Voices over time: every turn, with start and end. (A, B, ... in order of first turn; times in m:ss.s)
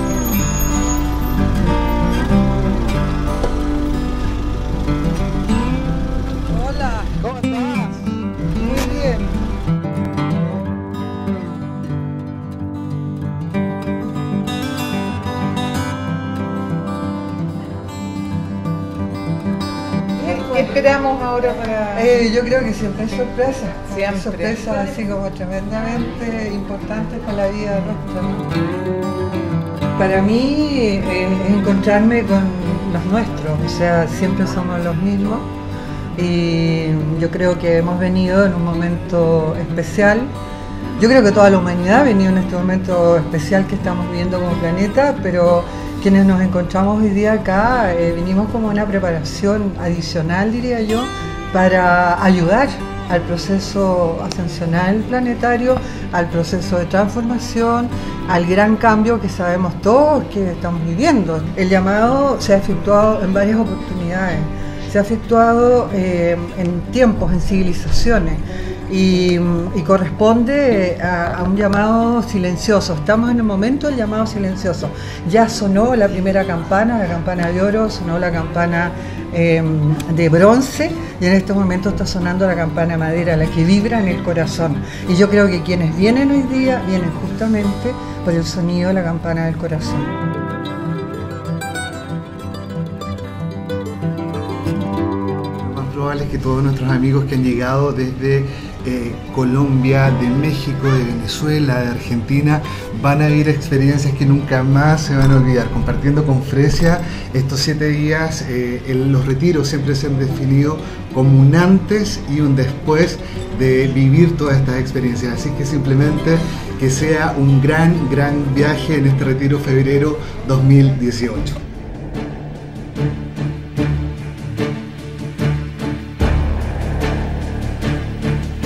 0:06.5-0:08.0 A
0:08.6-0:09.2 A
0:20.2-0:22.1 B
0:20.2-0:20.8 A
0:21.7-0:28.5 A
0:23.9-0:24.9 B
0:30.0-0:35.5 A
0:36.2-0:40.3 A
0:41.0-1:30.2 A
1:35.6-2:01.6 C